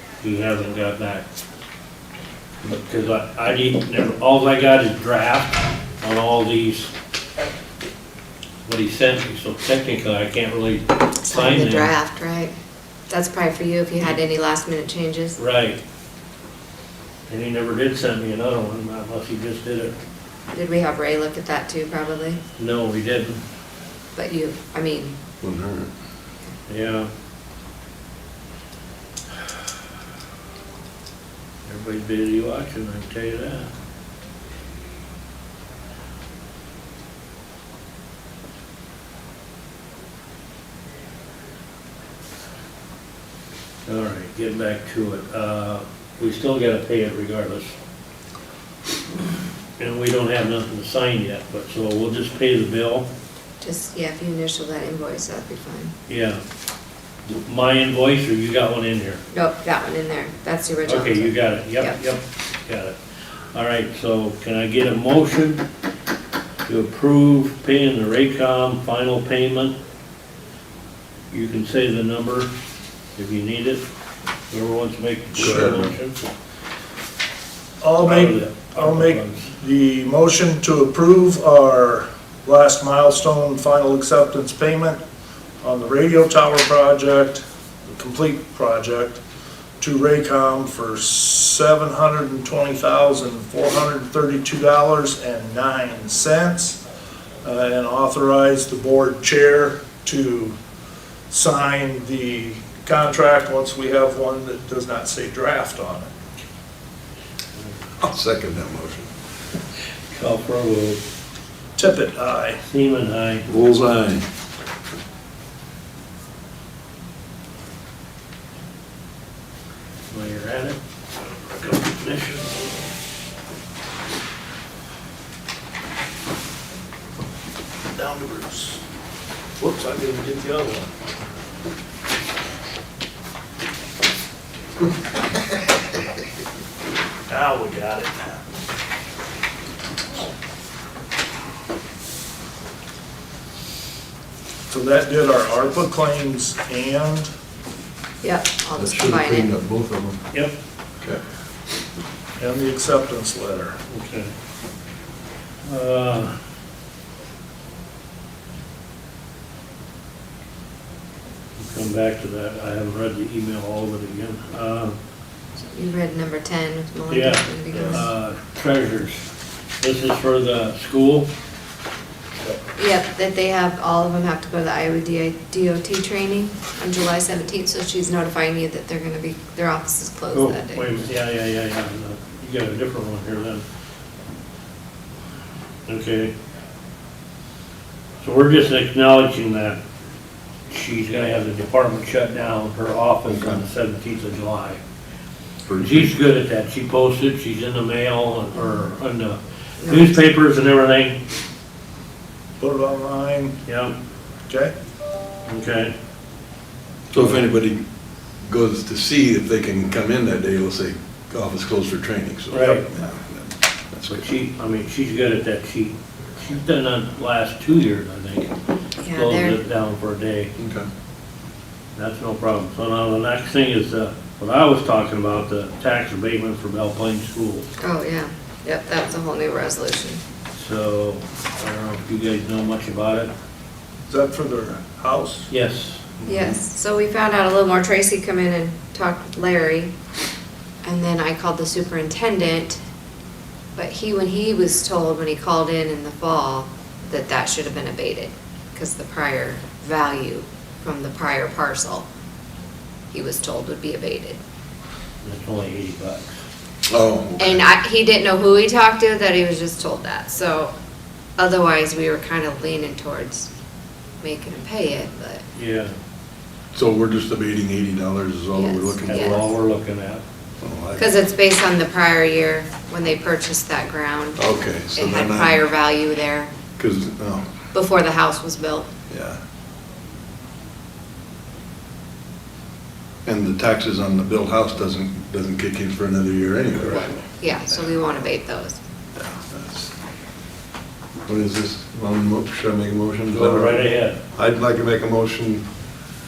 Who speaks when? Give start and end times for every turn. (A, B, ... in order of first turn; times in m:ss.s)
0:00.2-0:01.2 A
0:02.6-0:06.9 A
0:08.7-0:11.9 A
0:11.2-0:12.5 B
0:13.1-0:15.4 B
0:15.4-0:15.8 A
0:17.3-0:20.0 A
0:20.5-0:22.4 B
0:22.6-0:23.4 A
0:24.2-0:25.2 B
0:25.4-0:25.9 C
0:26.7-0:27.1 A
0:31.7-0:33.7 A
0:43.9-0:47.8 A
0:49.8-0:53.1 A
0:53.6-0:55.9 B
0:56.1-0:56.4 A
0:57.3-0:59.2 A
0:59.3-1:02.0 B
1:00.9-1:03.0 A
1:03.5-1:05.6 A
1:06.7-1:09.8 A
1:11.3-1:12.5 A
1:13.2-1:13.8 A
1:14.5-1:16.2 A
1:15.4-1:15.9 C
1:17.8-1:25.0 D
1:18.0-1:19.5 A
1:25.6-1:29.2 D
1:29.8-1:36.8 D
1:37.4-1:40.6 D
1:41.3-1:46.1 D
1:48.0-1:49.1 C
1:50.1-1:51.0 A
1:51.8-1:52.6 D
1:52.7-1:53.4 A
1:53.5-1:54.2 C
2:00.1-2:00.8 A
2:01.6-2:02.8 A
2:08.0-2:08.8 D
2:09.6-2:10.9 D
2:17.3-2:18.4 D
2:24.7-2:27.3 D
2:28.2-2:29.5 B
2:28.8-2:30.2 C
2:32.4-2:33.8 D
2:33.9-2:34.3 A
2:35.6-2:36.4 A
2:41.6-2:45.0 A
2:45.7-2:48.1 B
2:47.1-2:49.2 A
2:49.8-2:51.3 A
2:52.8-3:00.9 B
3:00.3-3:03.6 A
3:05.9-3:06.3 A
3:08.2-3:09.8 A
3:10.7-3:14.8 A
3:13.3-3:13.6 C
3:15.7-3:16.1 C
3:15.8-3:21.2 A
3:19.8-3:20.2 B
3:22.6-3:23.6 D
3:23.7-3:23.9 A
3:25.5-3:25.9 A
3:27.1-3:27.8 C
3:28.5-3:34.4 C
3:32.5-3:32.9 A
3:34.1-3:38.5 A
3:39.0-3:39.6 B
3:39.1-3:40.5 A
3:40.6-3:40.9 C
3:42.0-3:47.7 A
3:47.8-3:50.2 B
3:50.6-3:53.3 A
3:54.1-3:55.5 D
3:55.5-3:56.6 A
3:56.3-3:59.9 B
4:00.8-4:02.8 B
4:03.8-4:12.1 B
4:13.1-4:14.4 B
4:15.2-4:16.2 A
4:16.9-4:17.6 C
4:17.4-4:20.7 B
4:21.4-4:23.5 B
4:24.2-4:25.4 B
4:25.6-4:25.9 A
4:26.7-4:29.5 C
4:28.6-4:29.4 B
4:29.1-4:30.2 A
4:30.6-4:31.0 C
4:31.0-4:34.4 B
4:34.4-4:35.6 C
4:34.9-4:36.5 B
4:36.8-4:37.5 C
4:37.7-4:38.9 B
4:39.1-4:39.4 C
4:43.3-4:47.1 C
4:46.9-4:48.8 B
4:49.2-4:49.9 C
4:51.3-4:55.7 C
4:53.3-4:54.2 A